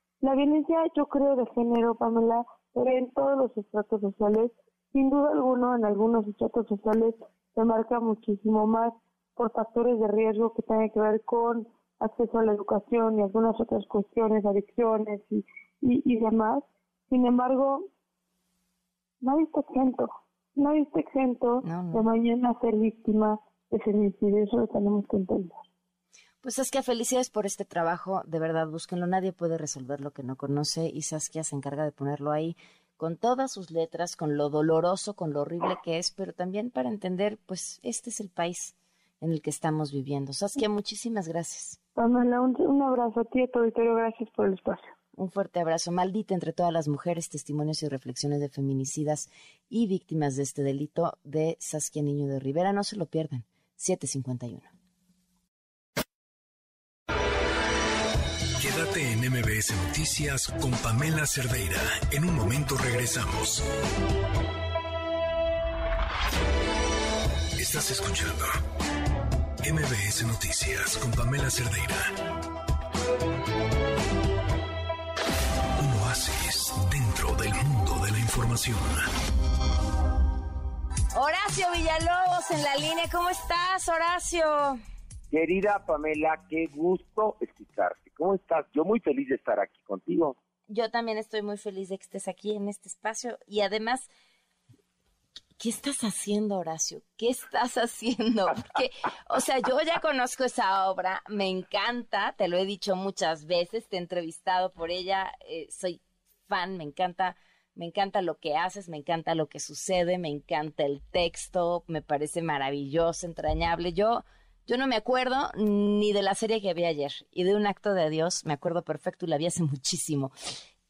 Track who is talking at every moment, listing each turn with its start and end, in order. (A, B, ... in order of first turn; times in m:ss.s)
0:00.2-0:17.8 A
0:19.2-0:25.6 A
0:21.6-0:22.0 B
0:26.4-0:41.8 B
0:42.0-0:44.9 A
0:45.1-0:54.7 B
0:58.6-1:03.6 C
1:07.6-1:08.5 C
1:09.6-1:12.1 C
1:15.8-1:19.0 C
1:21.1-1:24.8 B
1:25.3-1:30.4 D
1:30.7-1:34.1 B
1:35.6-2:00.3 B